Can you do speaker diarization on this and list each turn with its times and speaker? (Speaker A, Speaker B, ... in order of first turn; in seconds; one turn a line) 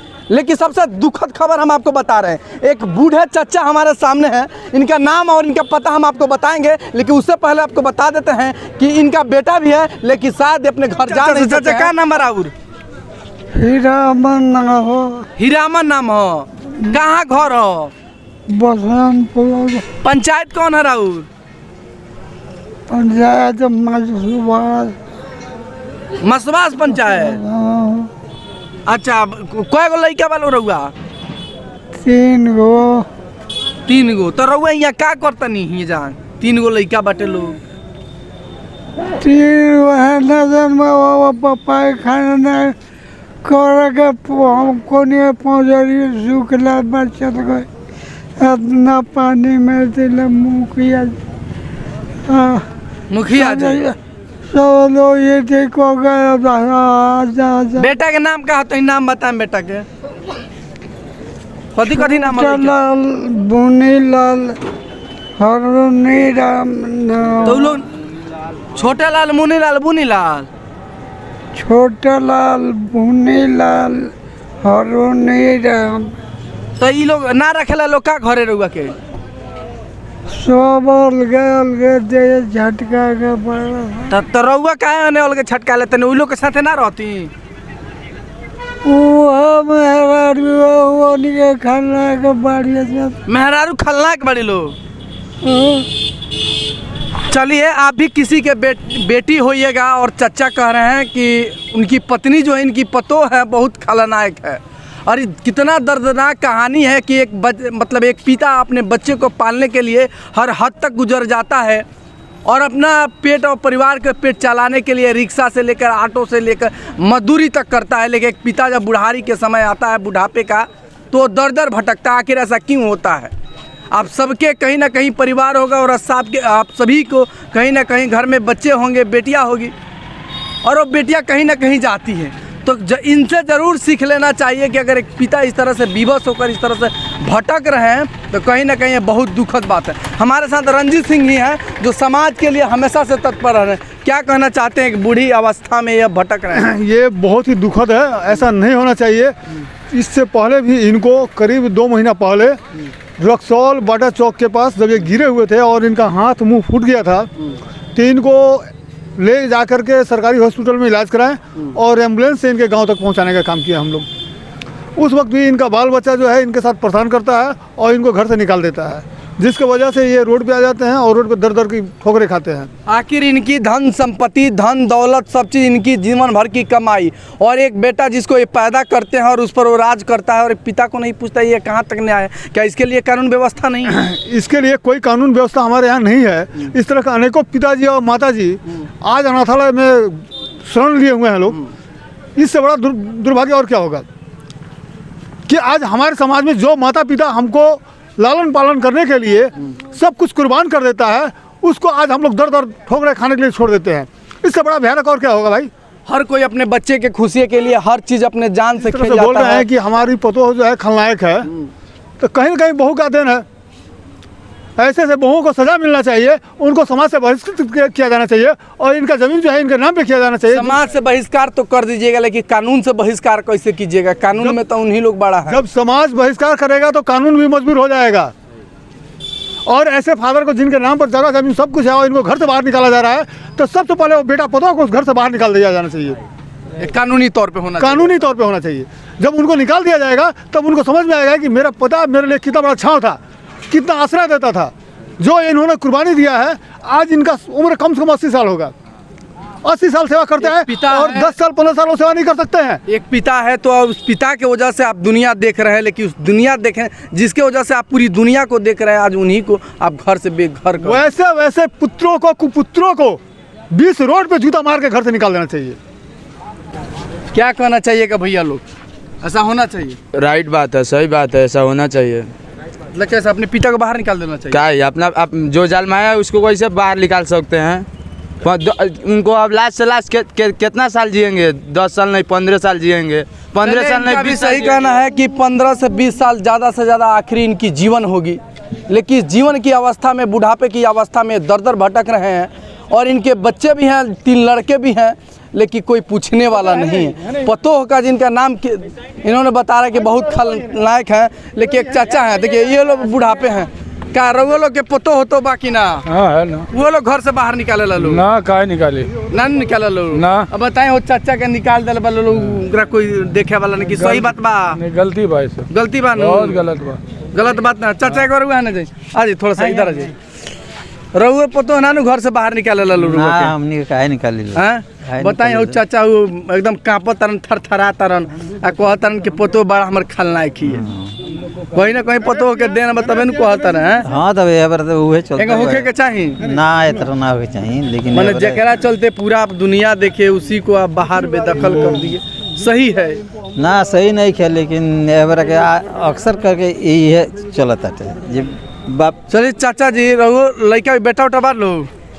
Speaker A: 0.3-12.5
Speaker B: 11.3-11.7
Speaker B: 13.5-15.2
Speaker A: 15.4-17.9
Speaker B: 18.5-19.8
Speaker A: 20.0-21.3
Speaker B: 22.9-24.9
Speaker A: 26.2-27.4
Speaker B: 27.0-28.1
Speaker A: 28.9-30.9
Speaker B: 32.0-33.0
Speaker A: 33.9-37.6
Speaker B: 39.2-42.7
Speaker B: 43.4-47.6
Speaker B: 48.4-51.1
Speaker B: 52.2-52.6
Speaker A: 53.1-53.9
Speaker B: 53.3-53.9
Speaker B: 54.5-57.9
Speaker A: 57.7-59.9
Speaker A: 61.7-62.7
Speaker B: 61.8-64.6
Speaker B: 65.4-67.8
Speaker A: 67.4-67.8
Speaker A: 68.7-70.5
Speaker B: 71.5-74.1
Speaker B: 74.6-76.1
Speaker A: 76.8-78.9
Speaker B: 80.3-84.2
Speaker A: 84.1-87.3
Speaker B: 88.8-93.2
Speaker A: 93.3-94.8
Speaker B: 95.4-95.8
Speaker A: 97.3-111.8
Speaker A: 112.4-123.3
Speaker A: 123.9-129.7
Speaker A: 130.6-146.7
Speaker C: 146.5-149.3
Speaker C: 149.9-152.6
Speaker C: 153.2-157.3
Speaker C: 157.9-164.1
Speaker C: 164.9-172.7
Speaker A: 172.9-183.9
Speaker C: 183.8-191.6
Speaker C: 192.3-194.0
Speaker C: 195.5-205.7
Speaker A: 206.1-209.7
Speaker C: 208.8-211.5
Speaker C: 212.2-213.4
Speaker C: 214.8-220.8
Speaker A: 220.5-225.6
Speaker C: 225.5-228.3
Speaker C: 229.7-236.2
Speaker A: 236.8-238.1
Speaker C: 237.8-243.2
Speaker C: 243.7-248.7
Speaker C: 249.6-252.8
Speaker A: 250.4-251.3
Speaker A: 252.8-261.0
Speaker C: 260.8-263.2
Speaker C: 263.7-265.8
Speaker A: 267.3-268.6
Speaker A: 269.2-270.0
Speaker D: 270.1-272.3
Speaker A: 272.9-274.6
Speaker D: 274.5-277.9
Speaker D: 278.4-284.8
Speaker A: 283.6-306.1
Speaker E: 306.1-306.7
Speaker A: 306.7-308.2
Speaker E: 308.0-309.1
Speaker A: 309.3-314.8
Speaker E: 310.1-310.5
Speaker E: 314.0-315.6
Speaker A: 315.7-316.6
Speaker E: 316.2-317.0
Speaker A: 317.3-320.1
Speaker A: 321.1-323.5
Speaker F: 323.0-325.8
Speaker A: 324.5-330.9
Speaker F: 330.6-331.1
Speaker A: 331.7-334.1
Speaker F: 334.0-338.6
Speaker A: 335.4-336.4
Speaker A: 338.1-343.2
Speaker F: 343.6-349.1
Speaker A: 349.3-351.9